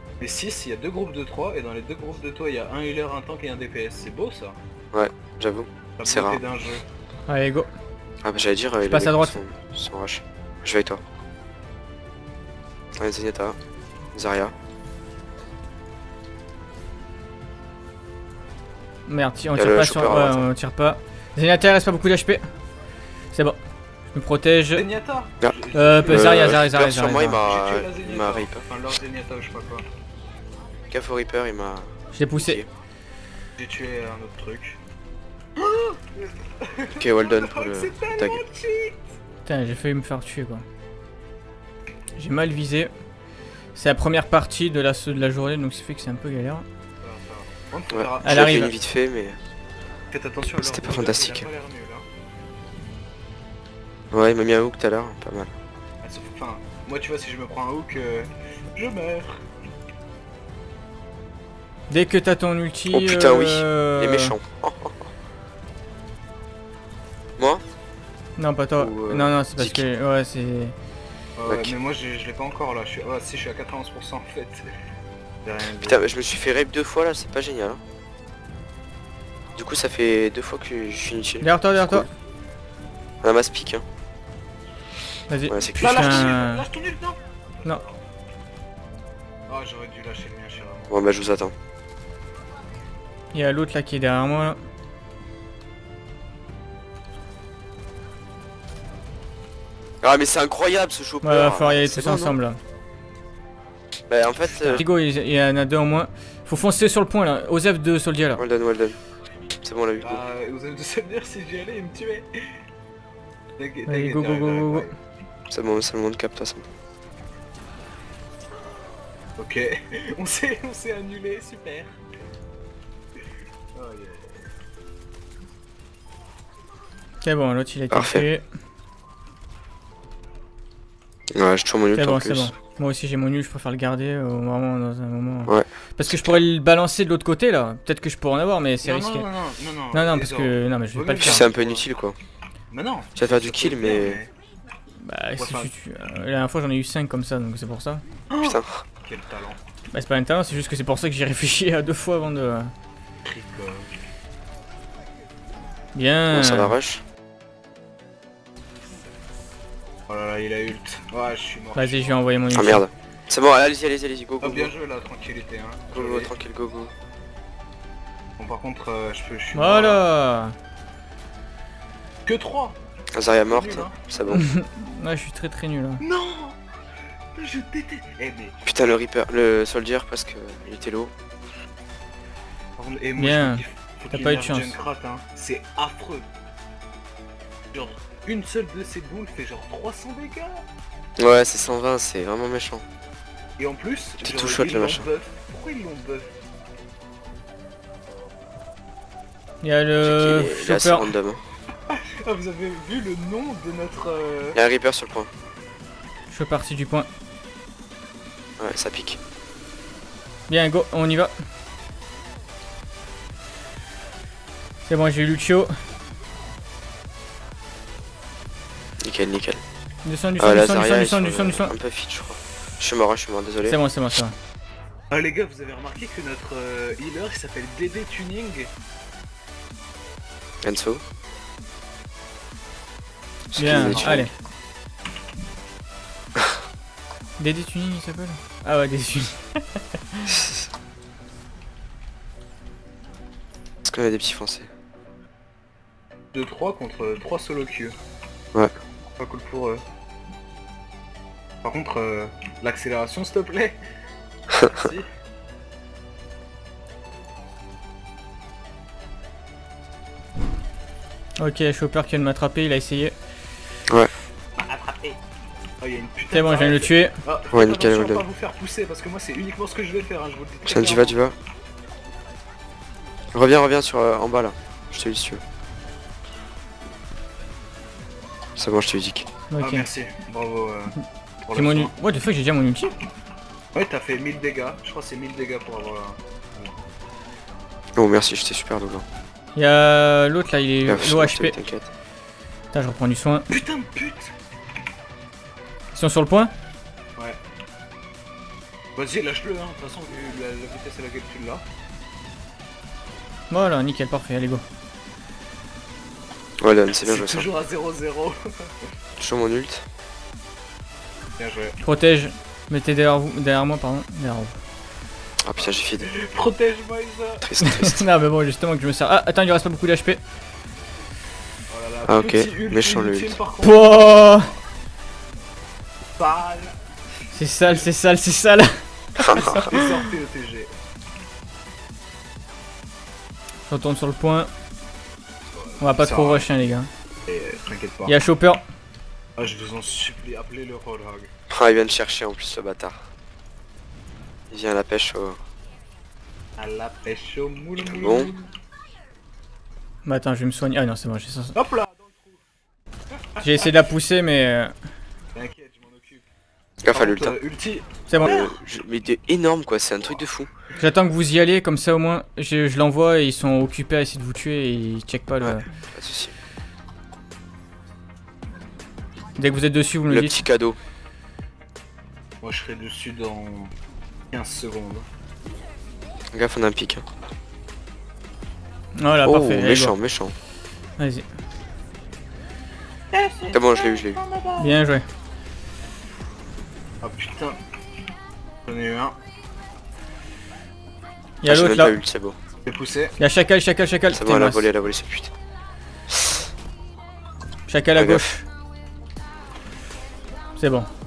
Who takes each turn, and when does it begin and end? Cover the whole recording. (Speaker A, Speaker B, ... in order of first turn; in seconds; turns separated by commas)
Speaker A: 0.2-4.6, Speaker B: 4.9-6.4, Speaker A: 6.0-6.8, Speaker C: 7.3-7.7, Speaker B: 8.2-11.0, Speaker C: 8.8-9.4, Speaker B: 13.0-13.6, Speaker B: 14.2-14.5, Speaker C: 19.1-22.4, Speaker B: 19.6-20.5, Speaker C: 23.3-23.6, Speaker C: 24.1-24.9, Speaker A: 24.8-26.6, Speaker C: 25.7-27.4, Speaker B: 26.1-28.7, Speaker A: 27.4-29.9, Speaker B: 30.9-32.7, Speaker C: 32.1-32.6, Speaker A: 33.6-34.8, Speaker A: 35.6-39.0, Speaker B: 37.0-38.4, Speaker C: 39.5-40.6, Speaker C: 42.2-42.9, Speaker C: 43.8-46.6, Speaker A: 47.0-48.6, Speaker B: 47.9-49.4, Speaker C: 48.2-48.7, Speaker A: 50.1-52.0, Speaker B: 50.6-51.5, Speaker B: 54.1-55.5, Speaker A: 56.0-59.4, Speaker C: 61.9-64.4, Speaker B: 62.9-65.1, Speaker B: 67.4-67.6, Speaker C: 68.4-70.8, Speaker B: 68.8-69.8, Speaker A: 71.4-74.7, Speaker B: 71.5-71.7, Speaker A: 75.5-76.0, Speaker B: 75.8-77.8, Speaker B: 79.6-82.1, Speaker C: 81.4-82.1, Speaker B: 83.2-83.8, Speaker C: 85.3-86.7, Speaker B: 85.5-86.3, Speaker A: 85.8-87.8, Speaker A: 89.5-91.0, Speaker B: 90.9-91.5, Speaker C: 93.3-94.6, Speaker B: 100.0-102.4, Speaker C: 101.2-102.6, Speaker B: 104.1-104.8, Speaker C: 104.5-108.4, Speaker B: 108.4-109.0, Speaker B: 109.6-110.2, Speaker A: 110.0-112.3, Speaker A: 113.6-114.9, Speaker C: 113.9-114.9, Speaker B: 115.5-116.7, Speaker A: 119.4-121.9, Speaker A: 123.8-124.4, Speaker C: 127.2-128.4, Speaker B: 127.9-128.3, Speaker B: 131.3-132.5, Speaker C: 131.9-139.3, Speaker A: 138.8-141.8, Speaker C: 139.9-141.5, Speaker B: 141.2-142.2, Speaker A: 142.7-144.3, Speaker B: 143.2-144.2, Speaker C: 145.0-148.0, Speaker A: 145.4-145.7, Speaker A: 148.3-149.6, Speaker B: 148.4-148.8, Speaker C: 149.9-152.7, Speaker A: 153.2-153.9, Speaker C: 155.9-156.8, Speaker B: 156.3-157.0, Speaker A: 160.1-162.2, Speaker C: 161.8-162.8, Speaker B: 162.5-164.7, Speaker A: 164.4-166.3, Speaker B: 165.9-166.9, Speaker A: 168.4-170.0, Speaker C: 169.5-170.6, Speaker A: 172.2-172.8, Speaker B: 173.1-174.4, Speaker A: 173.5-174.0, Speaker C: 174.3-176.0, Speaker A: 176.0-176.6, Speaker A: 177.4-178.6, Speaker B: 178.7-181.1, Speaker A: 182.8-186.2, Speaker C: 183.2-184.8, Speaker A: 187.7-190.6, Speaker B: 191.2-192.8, Speaker A: 193.6-196.3, Speaker B: 194.2-195.1, Speaker C: 199.6-201.1, Speaker B: 200.0-201.4, Speaker A: 201.9-204.6, Speaker B: 204.6-205.3, Speaker C: 206.3-207.1, Speaker B: 208.6-209.2, Speaker C: 210.5-211.3, Speaker C: 214.9-215.7, Speaker B: 219.0-219.6, Speaker C: 220.1-221.8, Speaker B: 220.4-223.8, Speaker C: 223.6-224.4, Speaker A: 225.1-228.7, Speaker B: 230.6-231.0, Speaker B: 233.5-234.3, Speaker C: 233.6-234.3, Speaker A: 233.6-234.2, Speaker C: 237.4-240.5, Speaker B: 243.9-244.7, Speaker A: 246.3-247.9, Speaker A: 249.2-249.8, Speaker A: 251.6-253.8, Speaker A: 254.6-255.1, Speaker C: 261.4-263.1, Speaker A: 264.6-265.2, Speaker A: 265.8-271.2, Speaker C: 266.3-267.2, Speaker B: 267.5-268.2, Speaker B: 270.7-271.4, Speaker B: 273.3-275.4, Speaker B: 278.6-279.3, Speaker C: 279.5-279.9, Speaker A: 279.6-280.9, Speaker A: 281.5-281.9, Speaker C: 281.5-282.9, Speaker A: 283.7-286.8, Speaker B: 288.0-289.1, Speaker C: 289.6-291.6, Speaker B: 290.9-291.9, Speaker C: 292.7-293.5, Speaker A: 293.5-294.3, Speaker C: 295.9-296.5, Speaker A: 299.0-301.6, Speaker C: 303.5-304.6, Speaker B: 306.6-307.5, Speaker A: 306.9-308.7, Speaker B: 309.2-309.9, Speaker A: 311.4-311.8, Speaker C: 311.8-314.6, Speaker B: 315.4-316.1, Speaker A: 315.6-317.5, Speaker B: 317.4-318.1, Speaker C: 317.6-320.2, Speaker A: 321.7-324.0, Speaker B: 322.1-323.4, Speaker C: 323.6-324.5, Speaker A: 326.2-326.8, Speaker C: 327.3-329.9, Speaker B: 329.2-329.6, Speaker A: 329.3-330.7, Speaker C: 333.7-334.5, Speaker A: 335.6-336.5, Speaker C: 335.8-336.9, Speaker A: 337.3-338.1, Speaker C: 338.1-338.6, Speaker A: 339.4-341.3, Speaker B: 341.5-343.0, Speaker B: 344.5-345.4, Speaker A: 346.6-348.4, Speaker B: 347.9-348.3, Speaker C: 350.1-351.6, Speaker A: 351.6-352.4, Speaker A: 353.4-353.7, Speaker C: 353.4-354.7, Speaker A: 355.4-356.2, Speaker B: 356.8-357.4, Speaker A: 356.9-358.5, Speaker C: 358.1-358.4, Speaker B: 358.1-360.5, Speaker C: 360.8-365.6, Speaker B: 365.4-366.3, Speaker C: 369.4-370.4, Speaker B: 370.1-370.8, Speaker A: 372.4-373.7, Speaker A: 374.3-375.1, Speaker B: 376.3-377.1, Speaker C: 378.9-379.9, Speaker B: 379.2-380.3, Speaker C: 381.0-381.3, Speaker A: 383.1-384.7, Speaker B: 383.5-384.2, Speaker C: 384.6-385.1, Speaker A: 387.0-387.6, Speaker A: 388.7-389.1, Speaker C: 391.4-392.0, Speaker B: 391.4-392.4, Speaker A: 392.7-393.2, Speaker C: 393.2-394.7, Speaker B: 394.1-395.3, Speaker C: 397.7-398.5, Speaker B: 397.9-398.3, Speaker C: 400.6-400.9